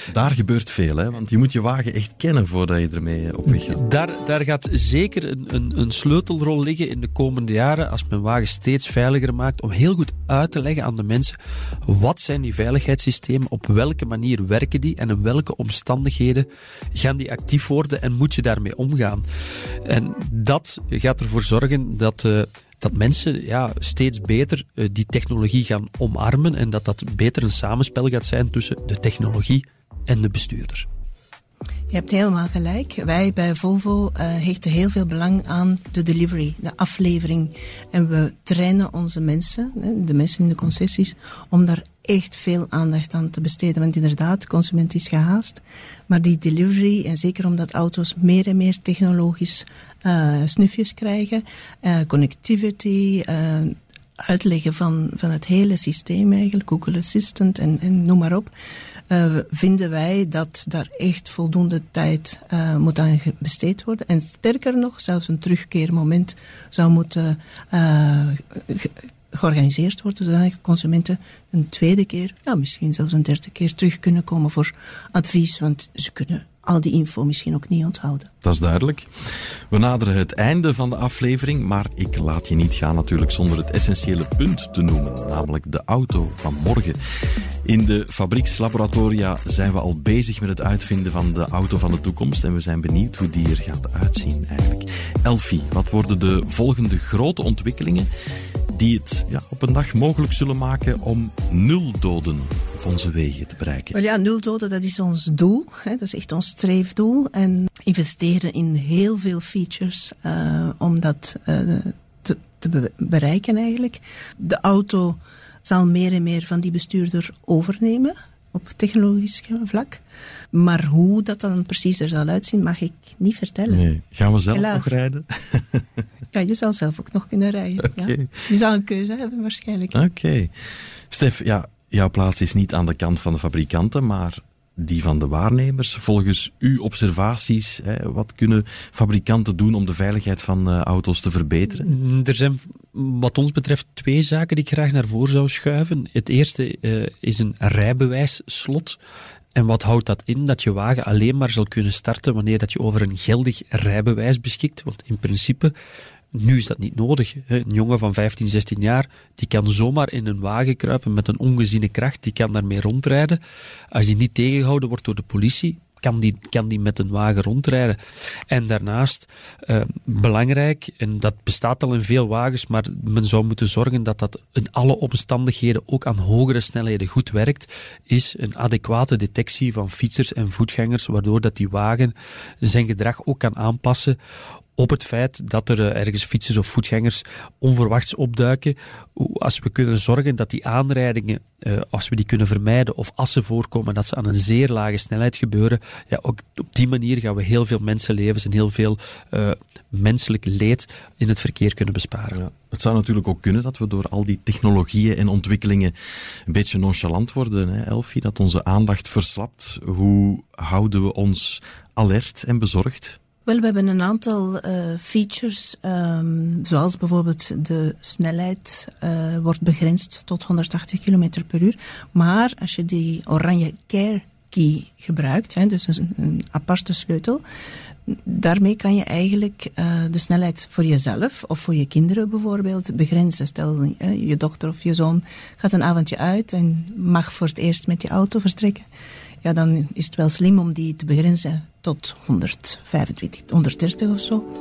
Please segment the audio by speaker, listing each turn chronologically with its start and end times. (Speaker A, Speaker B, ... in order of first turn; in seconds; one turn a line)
Speaker A: 0.1-3.8
Speaker B: 3.5-19.2
Speaker B: 19.8-30.9
Speaker C: 31.9-58.5
Speaker C: 59.1-78.3
Speaker A: 78.4-79.1
Speaker A: 79.7-87.0
Speaker A: 87.7-98.1
Speaker A: 98.7-104.0
Speaker C: 103.9-123.8
Speaker A: 123.7-125.8
Speaker C: 124.5-124.9
Speaker C: 126.3-129.9
Speaker A: 127.9-128.4
Speaker A: 129.9-130.5
Speaker A: 131.1-141.9
Speaker B: 141.8-149.0
Speaker B: 149.5-155.7
Speaker B: 156.3-163.4
Speaker B: 163.9-168.0
Speaker B: 168.5-184.2
Speaker B: 184.8-202.4
Speaker A: 202.3-213.2
Speaker C: 213.4-227.4
Speaker C: 228.1-238.8
Speaker C: 239.4-244.5